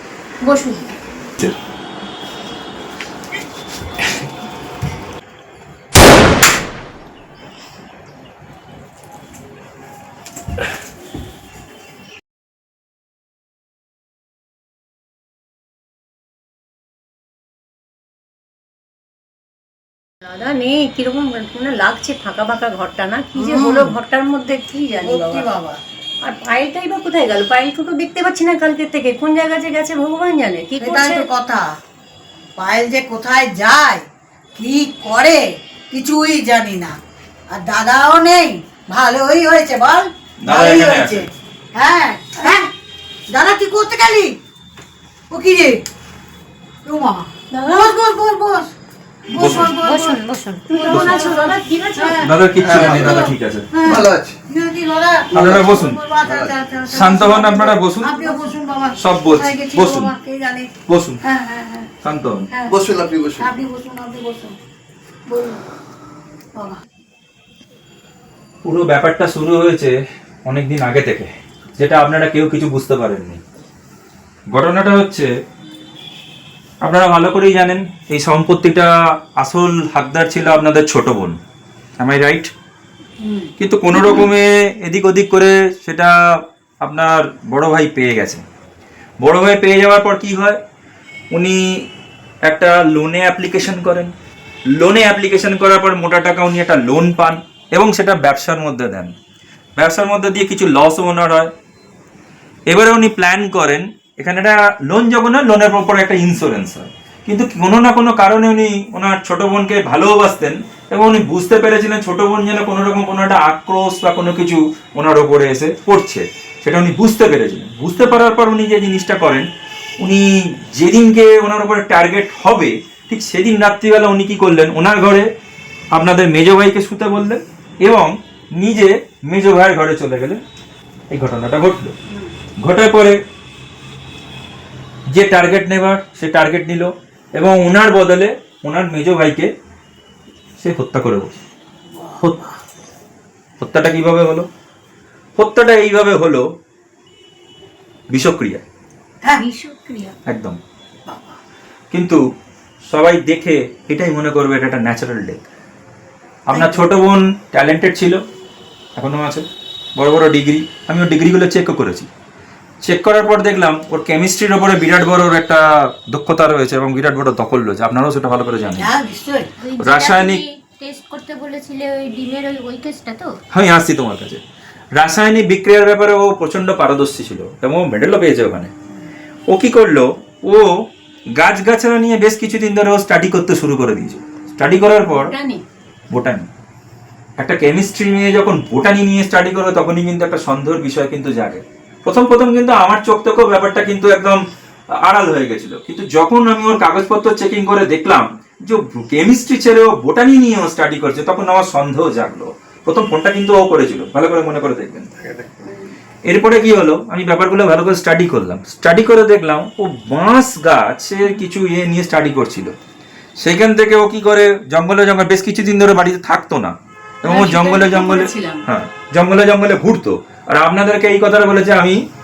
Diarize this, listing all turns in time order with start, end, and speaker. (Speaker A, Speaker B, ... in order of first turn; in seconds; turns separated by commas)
Speaker A: 0.4-0.9, Speaker A: 20.2-25.5, Speaker B: 23.4-24.0, Speaker B: 25.0-25.8, Speaker A: 26.2-31.3, Speaker B: 30.8-31.7, Speaker B: 32.6-37.0, Speaker B: 37.5-42.7, Speaker C: 40.4-41.3, Speaker B: 43.3-44.4, Speaker B: 45.3-45.8, Speaker B: 46.9-48.7, Speaker A: 47.5-47.9, Speaker B: 49.3-60.7, Speaker C: 49.4-49.7, Speaker A: 49.5-52.3, Speaker C: 50.9-51.2, Speaker C: 52.2-53.7, Speaker D: 52.6-54.4, Speaker D: 55.3-56.5, Speaker C: 55.3-56.0, Speaker C: 56.9-60.1, Speaker C: 60.9-61.2, Speaker B: 61.2-61.9, Speaker C: 62.0-62.5, Speaker D: 62.7-63.5, Speaker B: 63.4-64.6, Speaker B: 65.3-65.6, Speaker C: 68.6-70.0, Speaker C: 70.5-73.4, Speaker C: 74.5-75.3, Speaker C: 76.8-81.4, Speaker C: 82.0-82.5, Speaker A: 83.2-84.3, Speaker C: 83.6-88.5, Speaker C: 89.2-90.6, Speaker C: 91.3-91.9, Speaker C: 92.5-94.1, Speaker C: 94.7-99.1, Speaker C: 99.8-101.5, Speaker C: 102.7-119.5, Speaker C: 120.0-125.3, Speaker C: 125.9-130.4, Speaker C: 131.1-131.9, Speaker C: 132.6-133.2, Speaker C: 135.1-139.5, Speaker C: 140.6-141.4, Speaker C: 143.6-144.5, Speaker C: 145.4-146.4, Speaker C: 148.1-148.6, Speaker A: 149.3-150.1, Speaker C: 150.3-150.6, Speaker C: 151.9-152.2, Speaker C: 152.9-155.4, Speaker C: 156.5-158.2, Speaker B: 156.5-156.8, Speaker C: 159.0-162.1, Speaker C: 162.8-168.9, Speaker B: 168.8-169.5, Speaker E: 169.6-173.3, Speaker C: 169.8-170.4, Speaker A: 172.1-173.3, Speaker C: 173.5-174.4, Speaker C: 174.9-178.7, Speaker C: 179.5-180.7, Speaker C: 181.3-185.3, Speaker A: 184.9-185.6, Speaker C: 186.1-186.5, Speaker C: 187.4-205.1, Speaker D: 205.2-205.8, Speaker C: 206.2-212.8, Speaker C: 213.4-222.0, Speaker A: 217.2-218.7